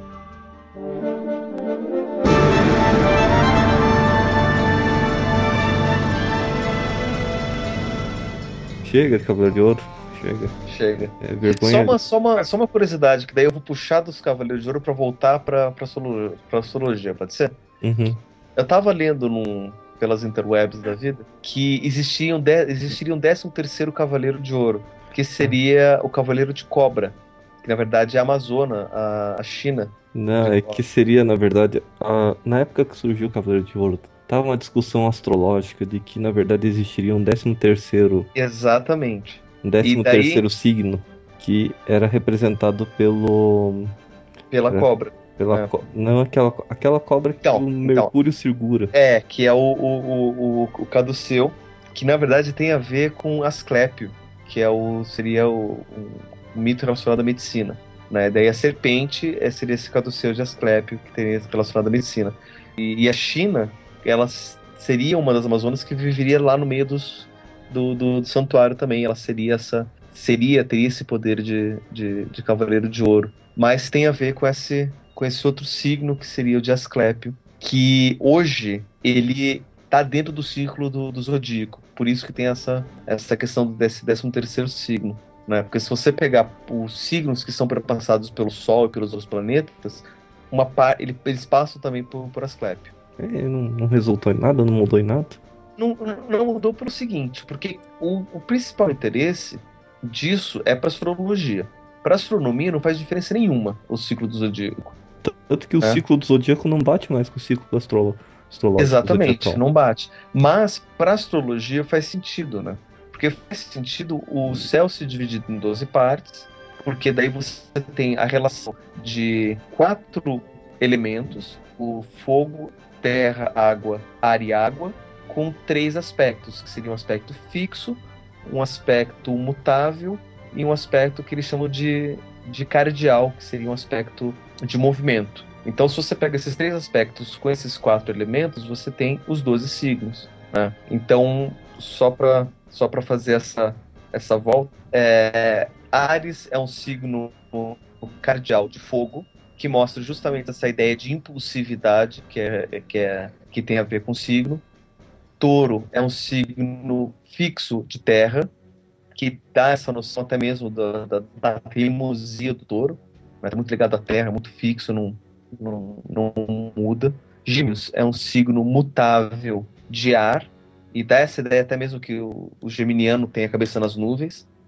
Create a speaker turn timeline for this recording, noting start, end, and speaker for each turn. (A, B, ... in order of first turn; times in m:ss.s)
0:08.8-0:10.5 A
0:10.7-0:17.6 B
0:11.2-0:12.0 A
0:17.8-0:18.2 A
0:18.6-0:30.8 B
0:30.1-0:38.3 A
0:38.3-0:40.4 B
0:39.6-0:44.0 A
0:44.5-0:45.7 B
0:44.7-0:48.9 A
0:47.4-0:48.1 B
0:48.9-1:32.9 B
1:33.2-1:35.4 A
1:35.8-1:44.9 B
1:45.2-1:49.6 A
1:48.8-2:34.6 B
2:35.4-2:38.5 B
2:39.1-2:54.5 B